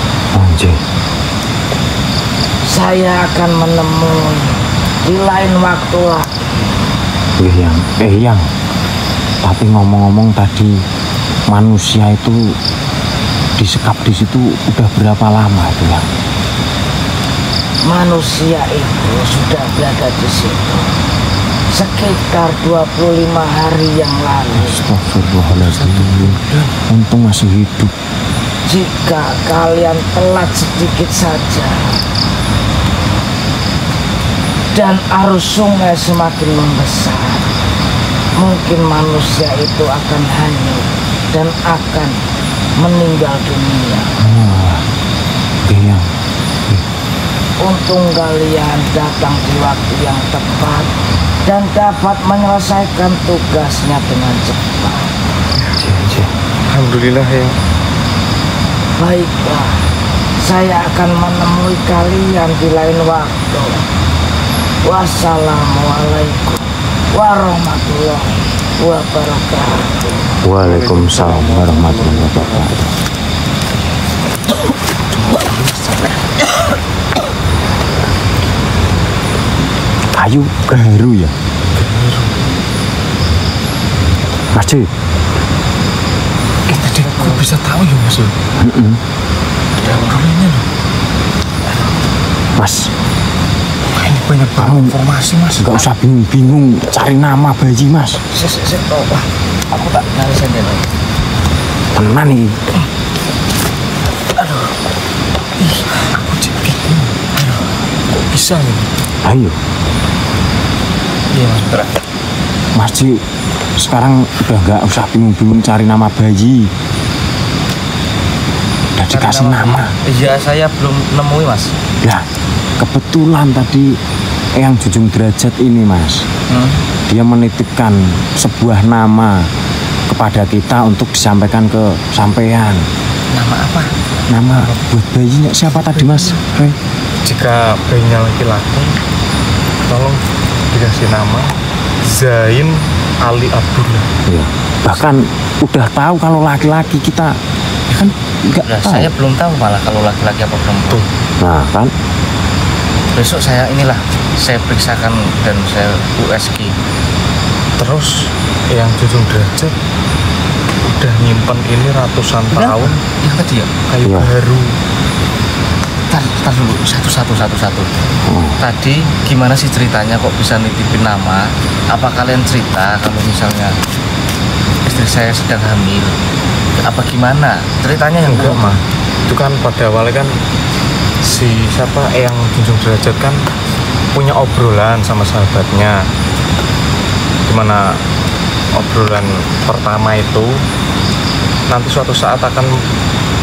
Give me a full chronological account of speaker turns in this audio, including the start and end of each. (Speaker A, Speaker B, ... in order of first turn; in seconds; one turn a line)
Speaker A: 0.3-0.8
Speaker B: 2.7-6.5
Speaker A: 7.4-8.4
Speaker A: 9.4-10.7
Speaker A: 11.5-12.4
Speaker A: 13.6-16.1
Speaker B: 17.8-20.9
Speaker B: 21.7-24.8
Speaker A: 24.5-27.9
Speaker C: 25.7-26.3
Speaker B: 28.6-32.0
Speaker B: 34.7-37.5
Speaker B: 38.4-42.2
Speaker B: 42.8-44.1
Speaker A: 44.2-44.9
Speaker A: 45.6-46.1
Speaker B: 47.6-50.9
Speaker B: 51.5-55.1
Speaker A: 55.8-56.3
Speaker D: 56.7-57.6
Speaker B: 59.0-59.8
Speaker B: 60.4-63.8
Speaker B: 64.8-70.0
Speaker A: 70.4-72.9
Speaker D: 70.7-72.4
Speaker A: 80.1-81.3
Speaker D: 81.7-82.4
Speaker A: 84.5-84.9
Speaker D: 86.7-88.3
Speaker C: 87.0-87.4
Speaker A: 88.6-89.0
Speaker D: 89.8-90.7
Speaker C: 89.8-90.1
Speaker A: 92.6-92.9
Speaker D: 93.9-95.8
Speaker A: 94.6-95.0
Speaker A: 95.6-98.2
Speaker C: 98.3-99.2
Speaker C: 99.7-100.9
Speaker A: 102.0-102.6
Speaker D: 105.6-107.7
Speaker D: 108.3-108.9
Speaker A: 109.2-109.6
Speaker D: 111.3-111.9
Speaker A: 112.8-113.2
Speaker A: 113.8-116.7
Speaker A: 119.0-119.9
Speaker C: 119.1-121.7
Speaker A: 122.0-122.3
Speaker A: 122.8-124.0
Speaker A: 124.6-126.2
Speaker C: 126.5-126.8
Speaker A: 127.1-129.4
Speaker A: 130.1-132.8
Speaker C: 133.3-133.9
Speaker A: 134.3-136.8
Speaker D: 135.8-136.3
Speaker D: 137.2-138.9
Speaker D: 139.9-141.5
Speaker D: 142.0-144.1
Speaker A: 144.3-147.4
Speaker A: 147.9-149.1
Speaker C: 148.7-151.1
Speaker A: 151.4-151.9
Speaker C: 153.2-156.8
Speaker D: 157.8-159.8
Speaker D: 160.8-163.0
Speaker C: 162.5-163.7
Speaker D: 163.9-164.8
Speaker A: 164.0-164.3
Speaker C: 166.1-167.9
Speaker A: 168.3-168.6
Speaker C: 168.6-173.8
Speaker C: 174.8-176.2
Speaker C: 176.8-178.8
Speaker D: 178.2-180.3
Speaker D: 181.2-183.4
Speaker D: 184.1-186.0
Speaker D: 187.5-188.0
Speaker D: 188.7-190.6
Speaker D: 191.7-192.8